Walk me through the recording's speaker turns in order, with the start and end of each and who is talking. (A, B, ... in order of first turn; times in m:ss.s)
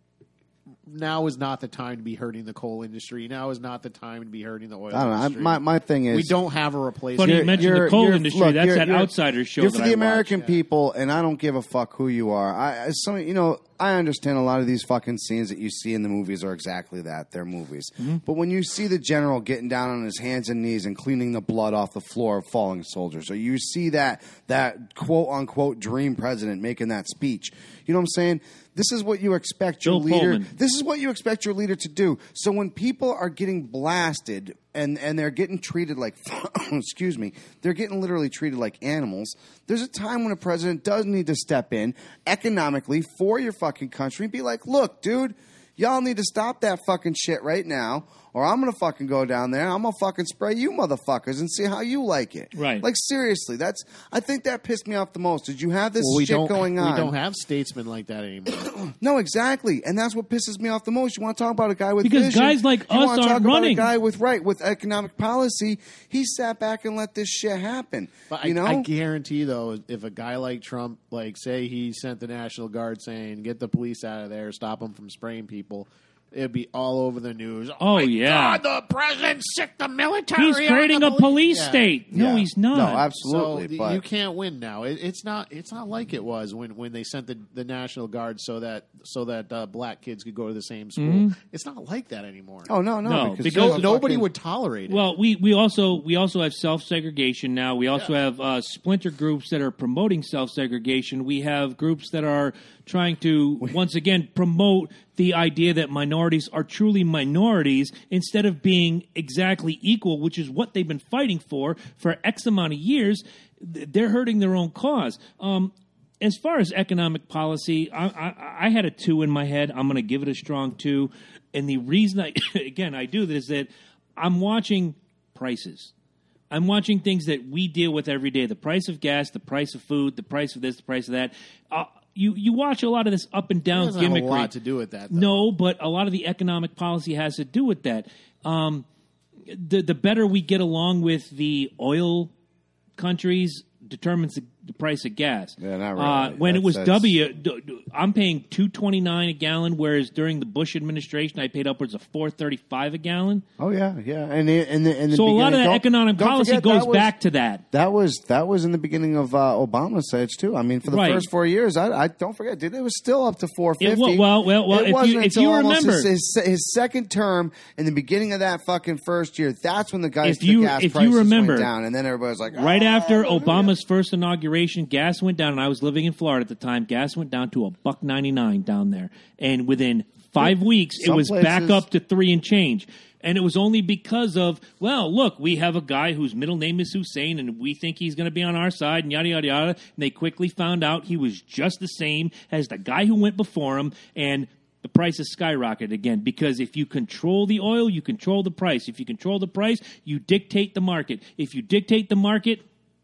0:00.9-0:07.9 A
0:04.9-0:06.4 B
0:07.2-0:10.4 C
0:07.2-0:57.1 B
0:29.8-0:30.5 C
0:52.6-0:52.8 C
0:56.0-0:58.8 A
0:58.8-1:08.9 B
1:02.0-1:03.9 C
1:08.3-1:21.9 A
1:17.8-1:18.6 C
1:20.4-1:23.0 C
1:22.1-1:24.0 B
1:23.2-1:32.7 A
1:31.0-1:31.4 C
1:32.7-1:34.3 B
1:33.0-1:33.9 C
1:33.5-1:35.0 A
1:34.9-2:05.9 C
2:06.5-2:14.5 C
2:13.7-2:15.4 A
2:15.1-2:18.9 C
2:19.5-2:22.3 C
2:23.0-2:33.4 C
2:25.6-2:27.2 B
2:33.6-2:37.1 B
2:35.1-2:37.6 C
2:37.7-2:53.7 B
2:40.9-2:41.3 C
2:43.8-2:46.1 C
2:50.2-2:51.7 C
2:52.5-3:22.6 C
3:00.4-3:01.8 B